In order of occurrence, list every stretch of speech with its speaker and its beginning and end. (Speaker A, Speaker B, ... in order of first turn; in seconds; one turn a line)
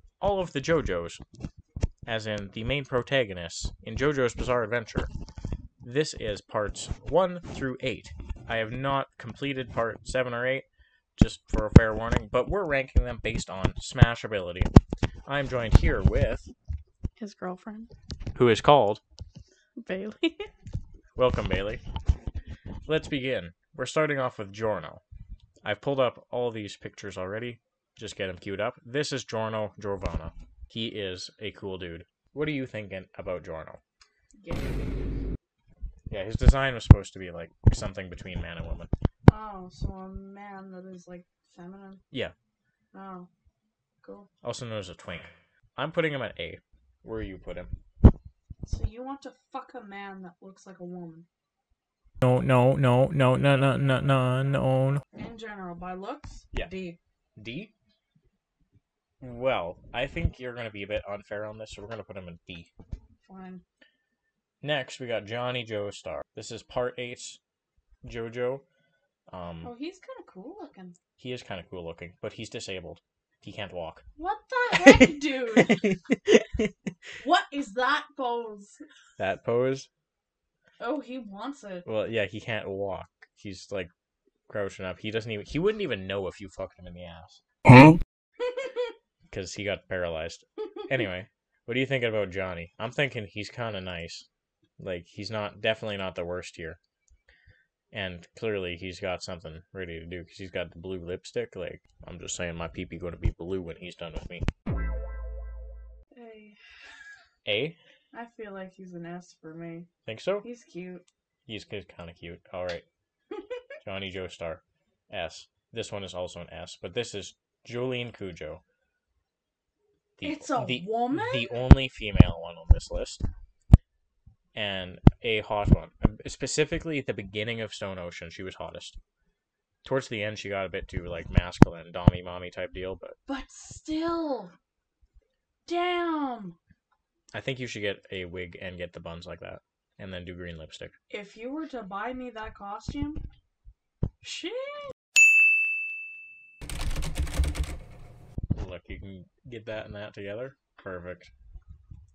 Speaker A: 0.2-1.2
Speaker A: 2.0-5.1
Speaker A: 5.8-14.7
Speaker A: 15.3-16.5
Speaker B: 17.2-17.9
Speaker A: 18.3-19.0
Speaker B: 19.8-20.5
Speaker A: 21.1-21.8
Speaker A: 22.9-25.0
Speaker A: 25.6-33.8
Speaker B: 34.4-35.1
Speaker A: 36.1-38.9
Speaker B: 39.3-42.0
Speaker B: 42.9-43.3
Speaker B: 44.0-44.3
Speaker A: 44.4-47.7
Speaker B: 48.6-51.3
Speaker A: 52.2-55.0
Speaker B: 55.1-57.0
Speaker A: 57.4-57.7
Speaker A: 59.2-62.7
Speaker B: 63.2-63.6
Speaker A: 64.6-67.4
Speaker A: 68.0-68.6
Speaker A: 69.3-69.7
Speaker B: 69.6-71.0
Speaker A: 71.2-74.0
Speaker B: 74.2-75.9
Speaker A: 74.8-76.7
Speaker B: 77.2-78.8
Speaker A: 79.2-79.9
Speaker B: 80.8-81.8
Speaker A: 81.8-83.9
Speaker A: 84.5-87.4
Speaker B: 88.4-88.9
Speaker A: 89.3-94.2
Speaker A: 94.8-96.8
Speaker A: 97.9-104.5
Speaker B: 106.1-106.6
Speaker A: 107.5-107.8
Speaker B: 108.1-109.9
Speaker A: 110.0-110.5
Speaker B: 110.4-111.0
Speaker A: 111.5-112.8
Speaker A: 113.8-118.6
Speaker A: 120.2-123.2
Speaker B: 120.2-121.5
Speaker A: 124.5-129.0
Speaker A: 129.8-133.2
Speaker B: 133.3-134.5
Speaker B: 135.7-136.6
Speaker A: 137.3-140.9
Speaker B: 141.1-143.2
Speaker B: 144.2-144.9
Speaker A: 148.5-151.3